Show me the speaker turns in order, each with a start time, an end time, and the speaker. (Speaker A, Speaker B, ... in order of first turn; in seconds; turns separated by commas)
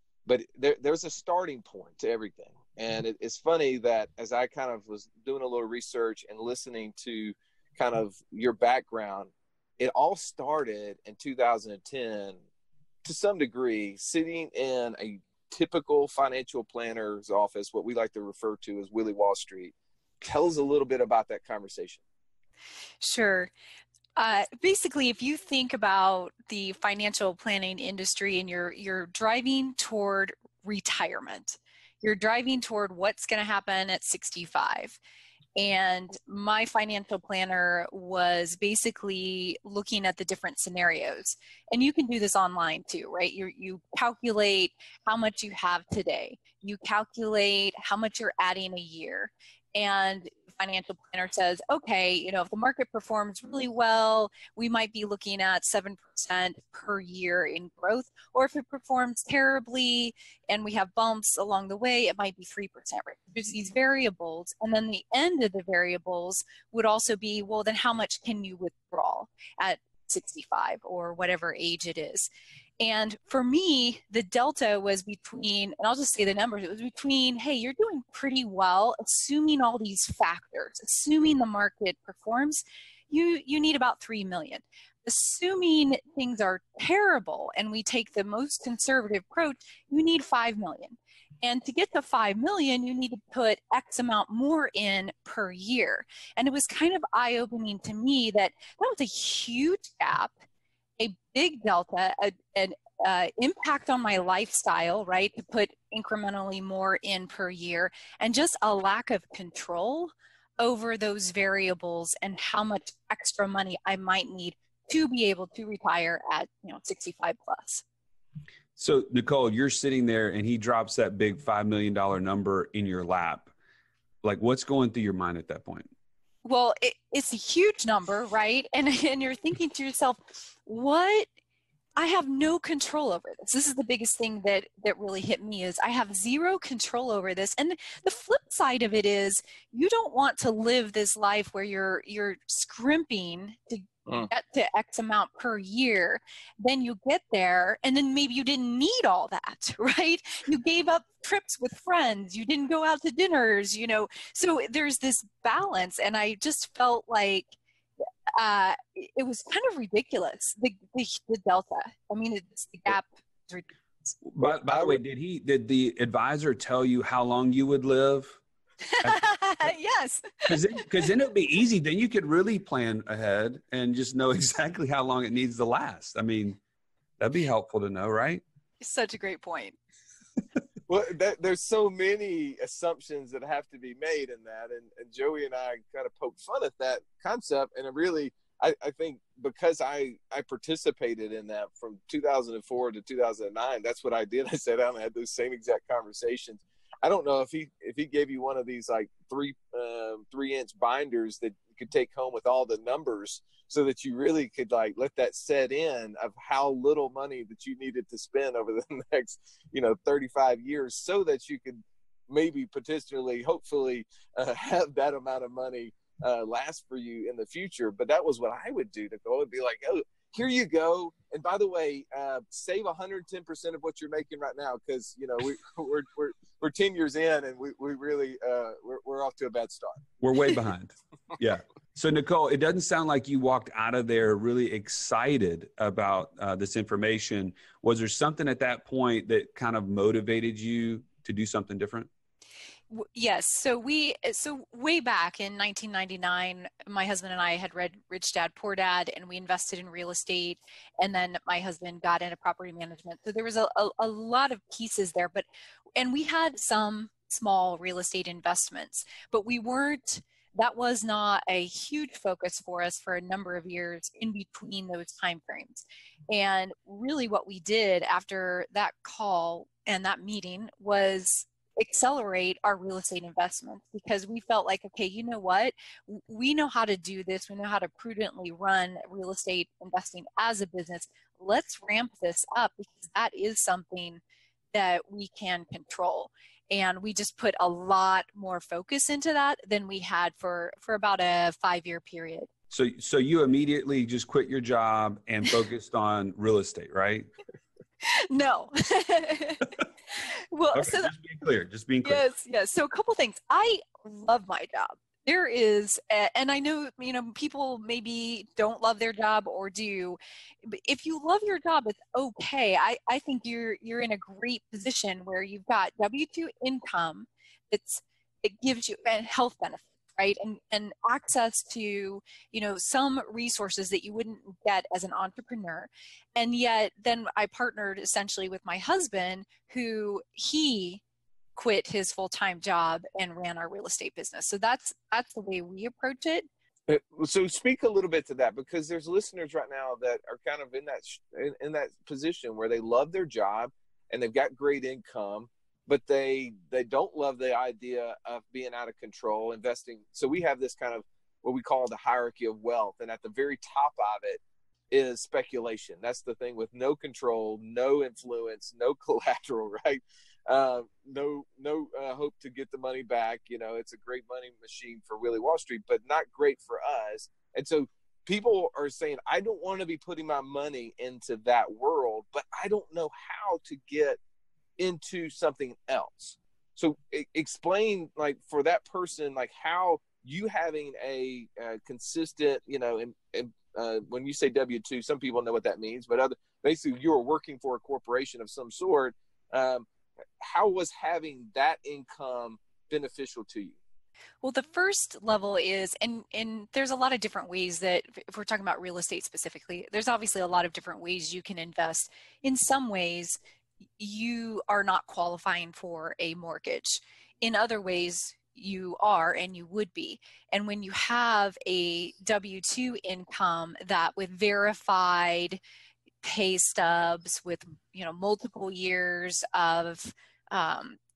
Speaker A: 0.2-12.4, Speaker A: 13.0-22.0, Speaker B: 23.0-23.5, Speaker B: 24.2-35.0, Speaker B: 35.5-72.3, Speaker B: 72.8-100.3, Speaker B: 101.0-117.8, Speaker C: 118.8-123.5, Speaker C: 124.2-125.9, Speaker B: 126.4-131.3, Speaker B: 131.9-157.5, Speaker B: 158.4-164.1, Speaker C: 164.2-168.4, Speaker A: 164.4-165.0, Speaker B: 168.9-170.8, Speaker C: 170.5-176.6, Speaker C: 177.2-178.4, Speaker B: 178.8-179.8, Speaker A: 180.9-230.0, Speaker C: 230.2-242.1, Speaker B: 242.9-255.4, Speaker B: 255.9-284.2, Speaker B: 284.7-292.5, Speaker C: 292.7-297.3, Speaker B: 298.0-301.1, Speaker C: 300.7-302.2, Speaker B: 302.0-331.0, Speaker B: 331.6-336.4, Speaker A: 336.9-374.2, Speaker A: 374.8-389.9, Speaker A: 390.4-393.8, Speaker B: 394.4-403.4, Speaker B: 404.0-415.6, Speaker B: 416.2-421.0